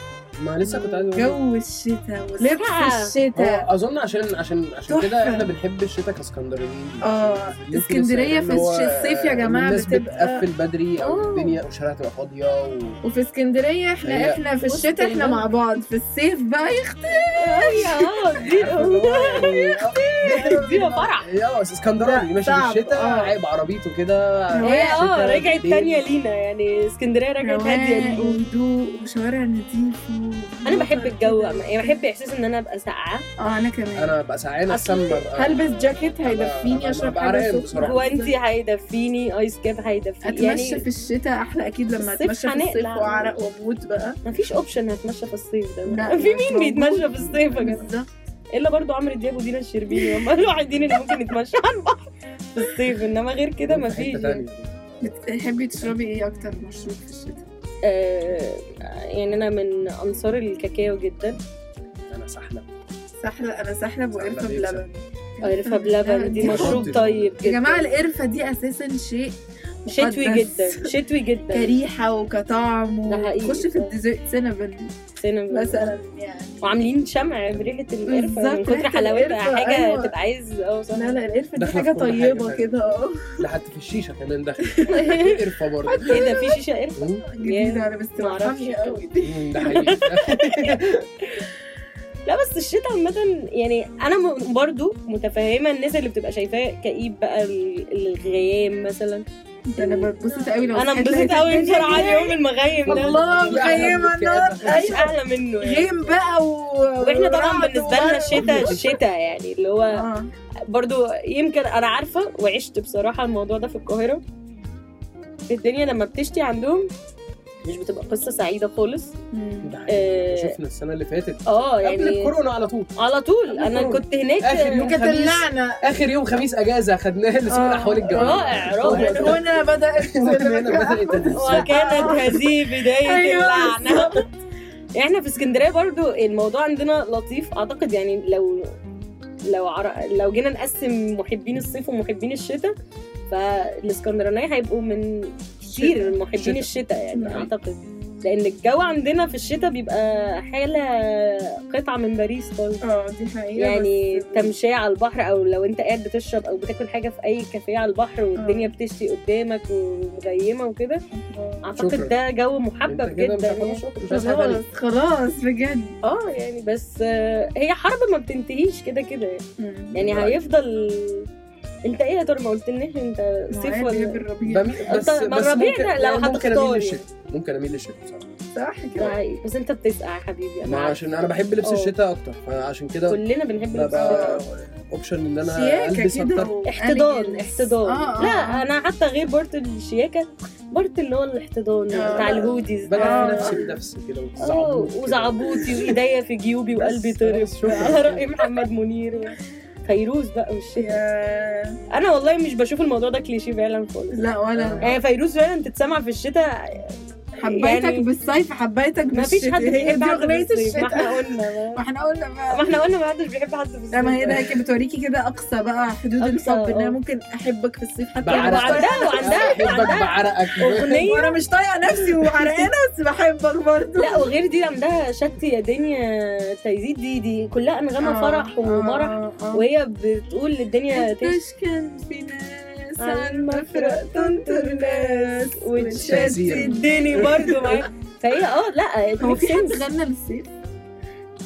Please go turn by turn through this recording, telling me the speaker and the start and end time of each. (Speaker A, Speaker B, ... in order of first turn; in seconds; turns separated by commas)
Speaker A: 0.4-1.4, Speaker B: 0.7-1.1, Speaker C: 1.1-3.6, Speaker B: 2.4-3.1, Speaker A: 3.4-13.0, Speaker C: 4.9-5.5, Speaker C: 7.0-10.5, Speaker B: 11.0-11.6, Speaker C: 13.0-19.0, Speaker A: 14.0-14.4, Speaker B: 14.6-15.5, Speaker B: 17.4-21.3, Speaker A: 18.5-20.6, Speaker C: 20.5-21.1, Speaker A: 21.2-26.1, Speaker C: 22.0-23.4, Speaker C: 24.6-25.0, Speaker B: 24.6-28.5, Speaker C: 27.4-32.0, Speaker B: 30.7-33.2, Speaker C: 33.4-34.2, Speaker A: 34.0-38.0, Speaker B: 34.7-35.2, Speaker C: 35.3-38.4, Speaker B: 37.8-40.9, Speaker C: 40.2-44.2, Speaker B: 42.0-43.3, Speaker B: 44.3-47.9, Speaker C: 45.9-48.1, Speaker B: 48.5-54.4, Speaker C: 49.9-50.3, Speaker A: 53.7-55.0, Speaker C: 55.0-57.5, Speaker B: 57.9-61.4, Speaker A: 62.1-62.6, Speaker C: 63.2-69.3, Speaker A: 64.1-64.8, Speaker B: 65.4-68.0, Speaker A: 66.4-67.3, Speaker C: 69.8-71.0, Speaker B: 69.9-71.8, Speaker C: 71.5-74.9, Speaker B: 73.1-73.9, Speaker B: 75.2-75.9, Speaker C: 75.5-77.0, Speaker B: 76.6-81.2, Speaker C: 78.1-80.2, Speaker C: 80.9-83.4, Speaker A: 81.6-86.1, Speaker C: 84.6-85.2, Speaker B: 84.9-85.4, Speaker C: 85.9-89.7, Speaker B: 86.1-89.0, Speaker A: 87.0-87.2, Speaker A: 89.2-91.0, Speaker B: 89.6-90.8, Speaker B: 92.3-99.2, Speaker C: 99.7-108.9, Speaker B: 99.8-104.0, Speaker A: 102.9-105.1, Speaker B: 104.6-106.2, Speaker B: 107.0-110.0, Speaker A: 108.3-108.8, Speaker C: 109.9-110.3, Speaker B: 110.7-114.2, Speaker B: 115.5-116.9, Speaker B: 117.6-119.1, Speaker C: 119.3-119.8, Speaker A: 119.6-122.9, Speaker B: 119.9-120.6, Speaker B: 121.5-122.4, Speaker B: 123.0-124.9, Speaker A: 123.5-132.4, Speaker C: 123.6-123.9, Speaker C: 124.8-126.0, Speaker C: 127.5-134.2, Speaker B: 128.1-129.4, Speaker B: 131.3-134.2, Speaker B: 135.0-138.6, Speaker B: 139.5-142.7, Speaker B: 143.3-152.8, Speaker C: 145.7-146.2, Speaker A: 146.3-147.5, Speaker C: 147.1-147.5, Speaker C: 152.8-154.6, Speaker B: 153.6-161.0, Speaker C: 158.4-158.7, Speaker C: 161.1-161.9, Speaker B: 161.6-164.6, Speaker A: 161.8-162.1, Speaker A: 162.9-164.6, Speaker C: 164.1-165.9, Speaker B: 166.0-169.4, Speaker C: 169.6-169.9, Speaker A: 169.9-170.4, Speaker B: 169.9-171.3, Speaker B: 171.9-174.2, Speaker C: 173.5-175.0, Speaker A: 174.4-178.3, Speaker B: 174.9-177.0, Speaker C: 178.5-179.2, Speaker B: 179.0-181.0, Speaker A: 180.6-186.5, Speaker B: 181.6-181.9, Speaker B: 183.1-184.4, Speaker C: 183.9-184.4, Speaker C: 185.4-188.7, Speaker B: 186.6-193.6, Speaker C: 191.9-193.7, Speaker A: 192.1-192.3, Speaker A: 192.8-196.0, Speaker B: 194.4-201.0, Speaker A: 196.8-198.3, Speaker C: 200.8-201.8, Speaker B: 201.9-204.2, Speaker C: 204.1-204.9, Speaker A: 204.6-204.9, Speaker B: 204.8-208.1, Speaker C: 207.4-212.8, Speaker B: 209.1-211.8, Speaker B: 212.5-214.5, Speaker C: 213.9-220.0, Speaker B: 216.2-217.0, Speaker A: 218.2-221.1, Speaker B: 218.3-221.4, Speaker C: 220.6-224.3, Speaker B: 222.1-222.7, Speaker B: 224.0-231.4, Speaker C: 228.0-229.7, Speaker C: 230.9-237.8, Speaker B: 233.0-239.8, Speaker A: 236.0-237.5, Speaker C: 239.2-240.5